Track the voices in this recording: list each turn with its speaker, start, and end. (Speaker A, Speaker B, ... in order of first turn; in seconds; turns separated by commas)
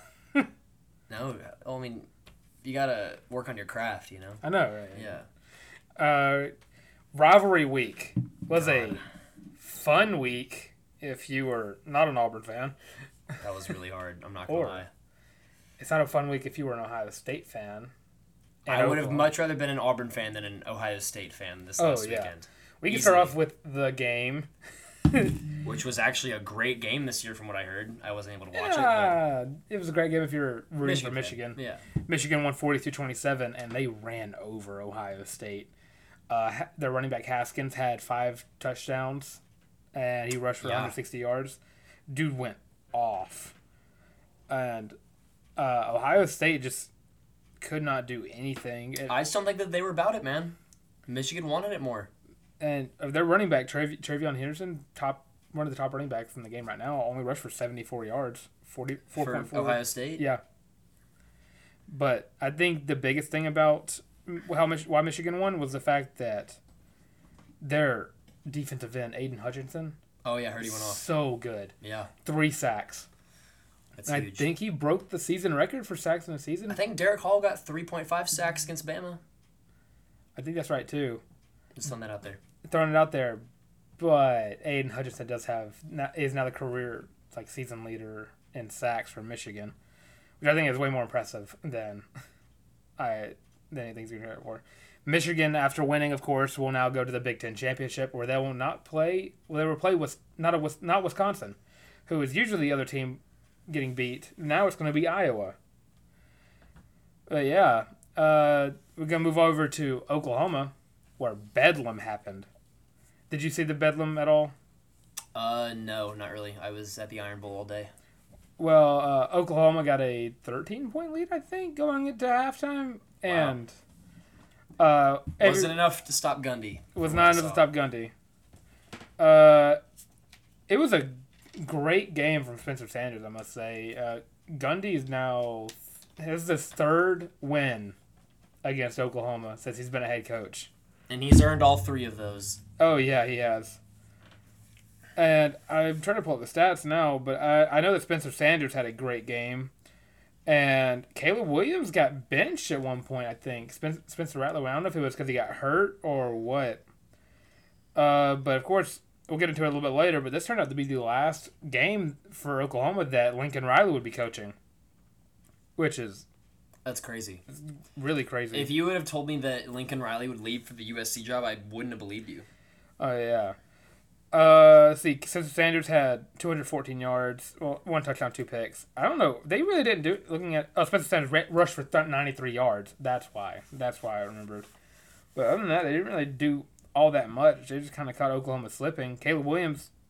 Speaker A: 1.1-2.1, Speaker A: 2.6-4.4, Speaker B: 4.4-5.1, Speaker A: 4.9-5.3, Speaker B: 6.0-6.5, Speaker B: 7.1-9.0, Speaker A: 8.6-9.0, Speaker B: 9.6-12.8, Speaker A: 13.4-14.9, Speaker B: 14.5-14.8, Speaker B: 15.8-17.9, Speaker B: 18.7-19.3, Speaker A: 18.7-23.3, Speaker B: 21.8-24.5, Speaker B: 25.1-25.4, Speaker A: 25.6-29.2, Speaker B: 28.5-35.7, Speaker A: 30.8-31.8, Speaker B: 36.3-39.4, Speaker B: 40.0-41.6, Speaker A: 40.6-41.0, Speaker B: 42.1-43.5, Speaker B: 44.5-45.0, Speaker B: 45.6-46.9, Speaker B: 47.6-49.2, Speaker A: 49.1-52.1, Speaker B: 52.6-60.4, Speaker A: 59.2-60.2, Speaker B: 61.9-66.6, Speaker B: 67.6-70.0, Speaker A: 70.2-71.0, Speaker B: 70.6-73.1, Speaker A: 71.8-72.1, Speaker A: 74.0-74.5, Speaker B: 74.1-76.8, Speaker A: 76.7-79.2, Speaker B: 80.4-81.2, Speaker A: 81.8-82.4, Speaker B: 82.6-83.5, Speaker B: 84.0-89.7, Speaker B: 90.4-92.0, Speaker B: 93.0-105.6, Speaker B: 107.3-112.5, Speaker B: 113.3-114.5, Speaker A: 115.3-117.9, Speaker B: 118.6-123.8, Speaker A: 123.3-123.6, Speaker B: 124.8-125.8, Speaker A: 125.4-127.7, Speaker B: 127.0-128.1, Speaker B: 129.2-129.8, Speaker B: 130.7-138.0, Speaker B: 138.6-140.7, Speaker A: 141.1-142.6, Speaker B: 142.8-143.8, Speaker B: 145.2-149.7, Speaker B: 150.5-156.8, Speaker B: 158.0-164.6, Speaker B: 165.8-166.2, Speaker A: 166.8-167.4, Speaker B: 167.5-168.7, Speaker A: 168.5-172.5, Speaker B: 173.0-173.6, Speaker B: 174.3-184.7, Speaker B: 185.3-189.9